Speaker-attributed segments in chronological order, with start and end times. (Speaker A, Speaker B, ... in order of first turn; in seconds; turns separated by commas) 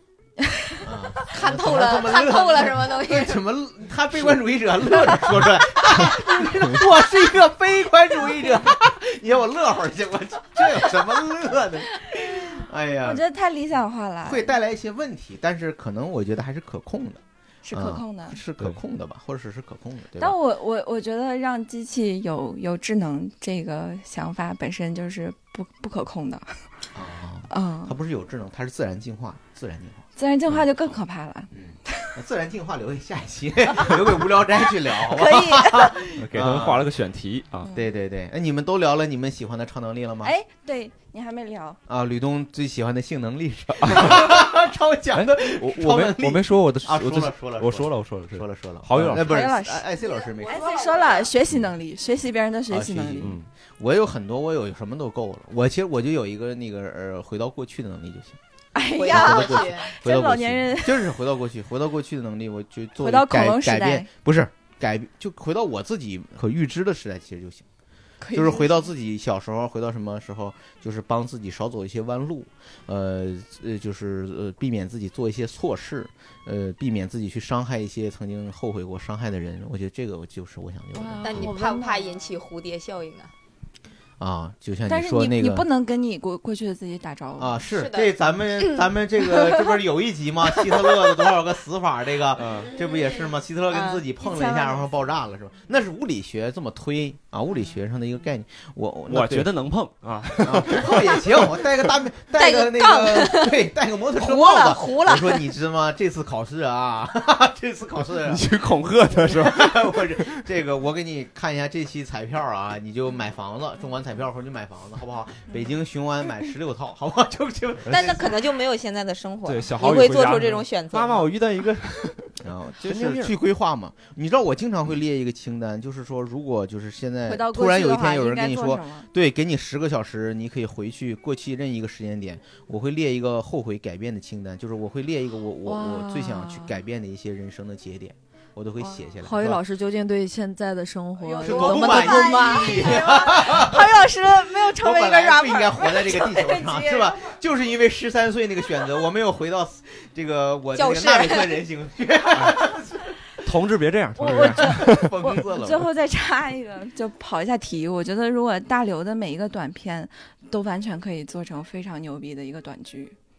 Speaker A: 0.4-0.9, Speaker B: 0.8-13.2, Speaker C: 1.3-3.4, Speaker A: 11.9-14.5, Speaker B: 14.2-20.4, Speaker A: 17.6-18.4, Speaker A: 20.2-26.8, Speaker B: 26.9-31.0, Speaker A: 27.5-27.9, Speaker A: 30.1-32.1, Speaker B: 31.5-36.9, Speaker A: 34.6-36.2, Speaker D: 36.2-37.7, Speaker B: 37.7-40.3, Speaker A: 40.2-41.8, Speaker B: 41.9-50.7, Speaker D: 43.7-44.4, Speaker D: 45.1-49.3, Speaker A: 49.2-53.4, Speaker C: 50.0-51.3, Speaker B: 52.7-58.4, Speaker D: 53.2-53.5, Speaker A: 58.7-61.2, Speaker C: 58.9-59.9, Speaker B: 59.1-67.7, Speaker A: 63.0-64.1, Speaker A: 68.2-68.9, Speaker B: 68.3-81.5, Speaker A: 80.9-82.2, Speaker C: 81.2-83.3, Speaker B: 84.2-85.7, Speaker A: 84.8-87.6, Speaker B: 87.4-99.5, Speaker C: 87.7-88.9, Speaker D: 92.3-92.7, Speaker C: 92.8-93.1, Speaker C: 93.7-94.0, Speaker A: 94.2-94.7, Speaker D: 99.1-101.7, Speaker B: 100.4-108.5, Speaker C: 102.3-105.5, Speaker D: 108.2-110.4, Speaker B: 109.0-118.3, Speaker C: 117.9-121.3, Speaker D: 119.4-123.3, Speaker B: 122.4-139.6, Speaker A: 127.3-129.1, Speaker A: 135.7-136.6, Speaker E: 139.2-142.9, Speaker A: 141.2-147.1, Speaker B: 141.4-153.3, Speaker C: 141.5-143.1, Speaker C: 150.7-151.6, Speaker D: 152.3-152.6, Speaker D: 153.4-155.1, Speaker A: 154.2-163.2, Speaker B: 154.2-155.9